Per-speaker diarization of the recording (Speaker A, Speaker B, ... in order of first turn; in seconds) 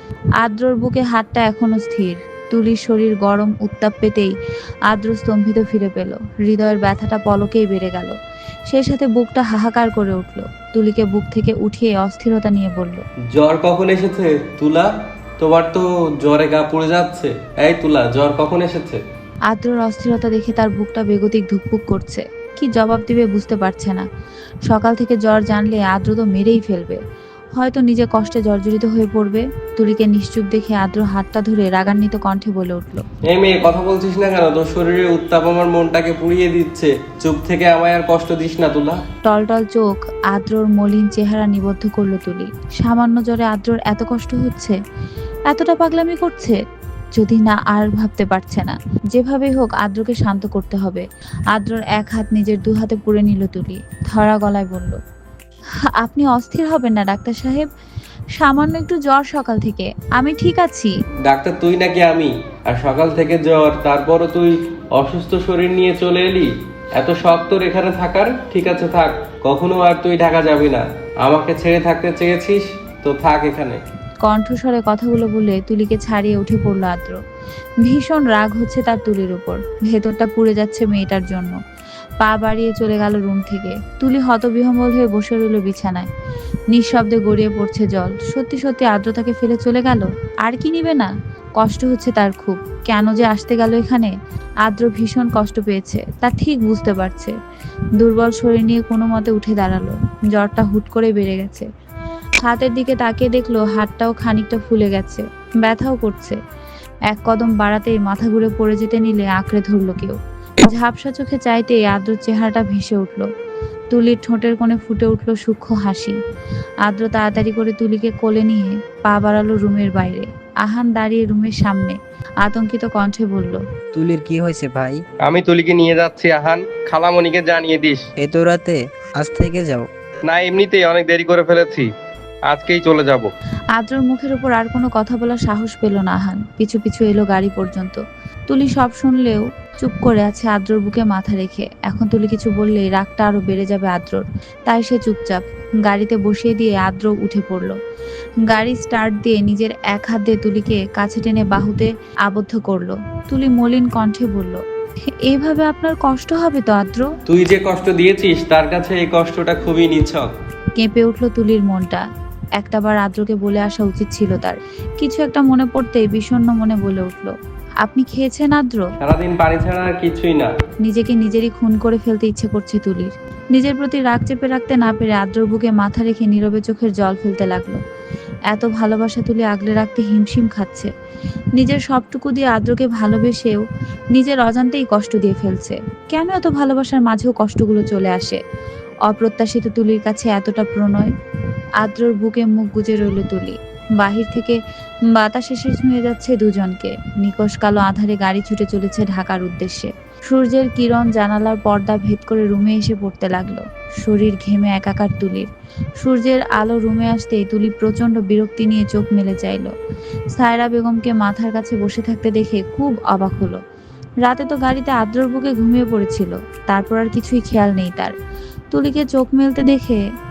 Speaker A: 0.4-4.3, 4.9-8.2, 8.7-13.0, 19.5-24.1, 24.7-27.0, 27.6-33.0, 39.2-44.8, 45.5-46.6, 47.1-55.0, 56.0-57.7, 58.4-60.9, 74.2-77.2, 77.8-81.5, 82.2-86.1, 86.7-94.1, 94.6-97.3, 98.0-101.7, 102.4-106.4, 107.1-113.3, 113.9-116.2, 116.8-123.6, 133.8-147.8, 148.5-154.6, 155.2-157.1, 160.8-162.1, 162.6-168.9, 170.8-177.8, 178.5-180.9, 181.6-188.4, 189.1-191.1, 191.8-194.6, 195.1-209.7, 210.3-213.6, 214.2-218.1, 218.7-220.0
Speaker B: 13.3-19.0, 33.2-39.0, 61.2-73.8, 125.2-128.0, 130.2-131.9, 132.4-133.3, 157.3-160.3, 169.0-170.5
Speaker C: 123.9-125.0, 128.2-129.8